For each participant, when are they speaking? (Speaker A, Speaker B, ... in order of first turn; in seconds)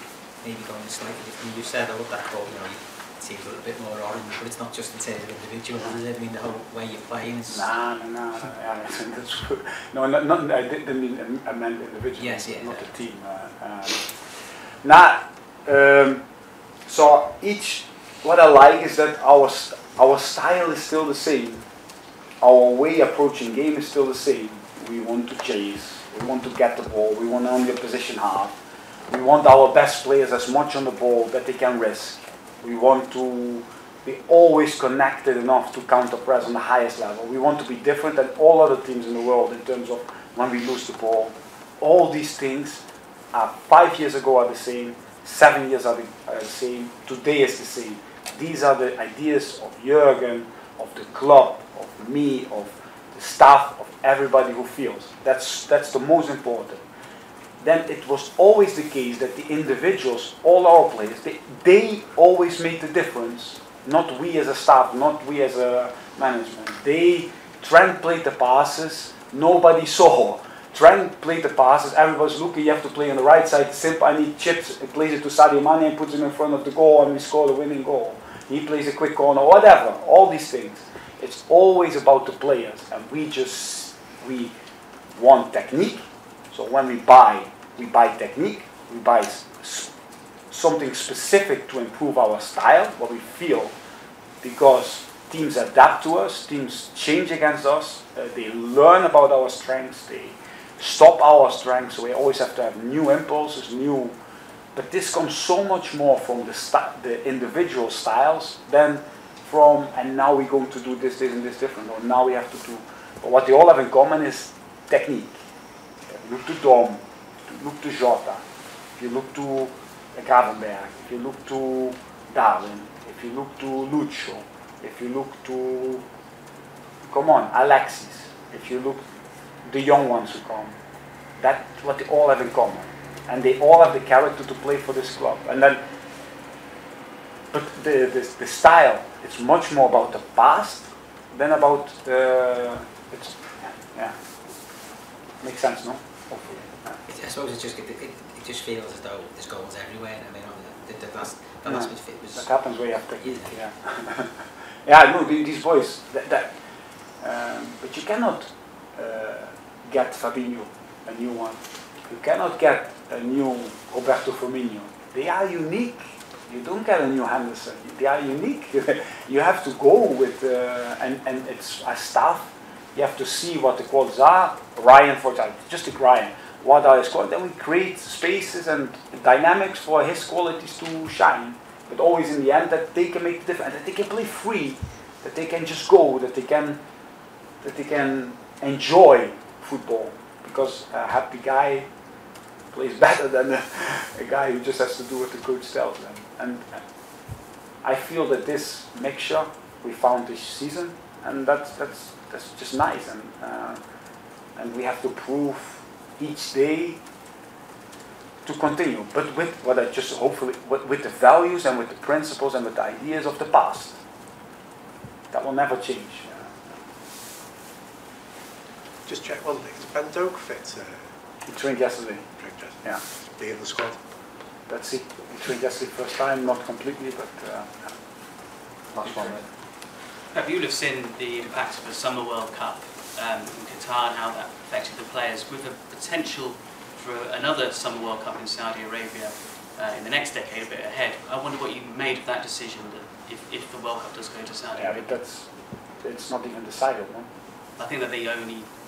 Speaker A: 0.4-7.7, 12.2-12.9, 147.1-153.6
Speaker B: 7.5-16.2, 16.8-21.6, 22.4-28.5, 29.1-56.8, 57.6-84.5, 85.1-89.9, 90.5-93.7, 94.4-104.1, 104.7-115.4, 116.1-118.4, 119.0-126.0, 127.0-129.0, 129.6-130.8, 131.4-135.8, 137.5-144.2, 145.4-147.0, 151.6-156.5, 157.2-186.8, 187.6-191.9, 192.7-196.8, 197.8-203.8, 204.6-207.0, 208.4-214.0, 215.3-216.7, 221.4-222.3, 224.7-227.9, 228.9-229.4, 244.7-247.3
Speaker C: 219.1-221.1, 222.4-222.8, 223.3-224.0
Speaker D: 229.1-229.3, 230.3-245.1, 247.8-248.7